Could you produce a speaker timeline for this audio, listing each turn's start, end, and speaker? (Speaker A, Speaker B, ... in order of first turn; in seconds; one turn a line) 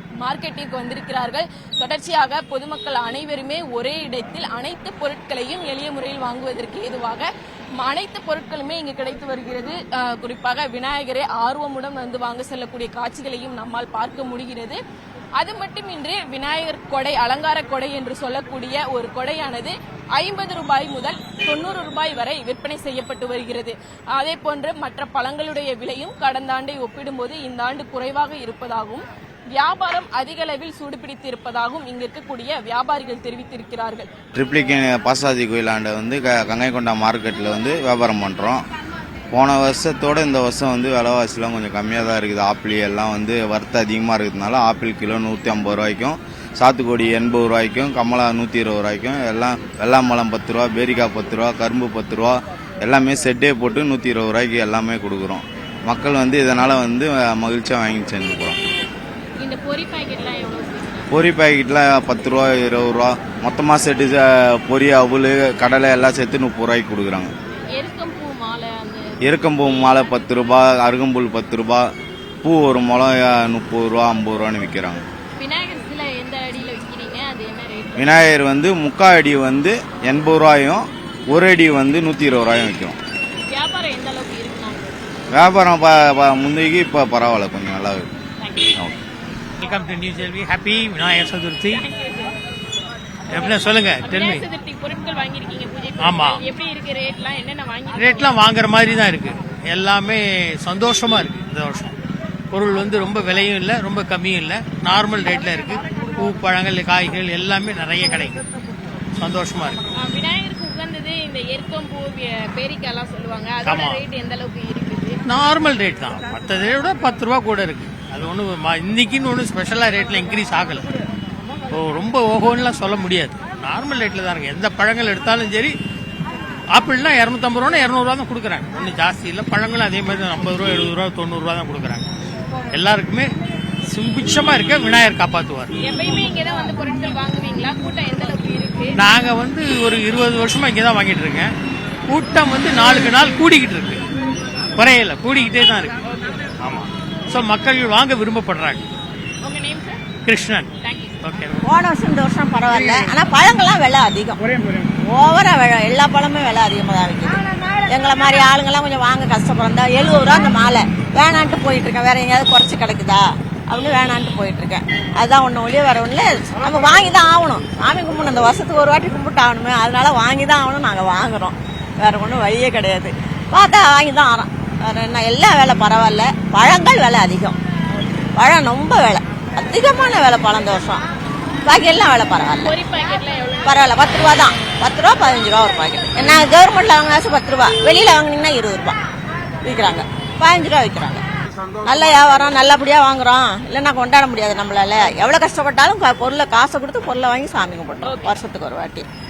Speaker A: 0.2-14.8
Speaker A: 15.4-29.1
Speaker A: 29.6-34.1
Speaker B: 34.4-38.7
Speaker B: 39.3-58.6
Speaker A: 59.4-61.1
Speaker B: 61.1-67.3
Speaker A: 67.7-70.2
Speaker B: 69.2-71.9
Speaker B: 72.4-75.0
Speaker A: 75.4-78.1
Speaker B: 78.0-83.0
Speaker A: 83.5-84.8
Speaker B: 85.3-88.1
Speaker A: 88.4-88.8
Speaker C: 89.6-91.8
Speaker A: 91.8-92.3
Speaker C: 93.3-94.5
Speaker A: 93.3-98.4
Speaker C: 96.0-96.4
Speaker C: 97.9-102.0
Speaker C: 102.5-108.4
Speaker C: 109.2-109.8
Speaker A: 109.9-115.2
Speaker C: 113.7-114.0
Speaker C: 115.3-120.9
Speaker C: 121.7-125.7
Speaker C: 126.7-132.1
Speaker C: 132.7-133.3
Speaker C: 133.9-135.8
Speaker A: 135.8-139.0
Speaker C: 138.9-141.5
Speaker C: 142.1-144.0
Speaker C: 144.8-146.0
Speaker C: 146.6-148.9
Speaker A: 149.4-150.0
Speaker C: 150.2-151.7
Speaker A: 150.8-151.2
Speaker D: 151.6-154.4
Speaker C: 152.7-153.1
Speaker D: 155.0-177.6
Speaker D: 178.4-181.0
Speaker D: 181.6-182.8
Speaker A: 182.6-183.8
Speaker D: 183.7-189.0
Speaker D: 189.6-191.2
Speaker D: 191.8-199.1
Speaker A: 198.0-198.4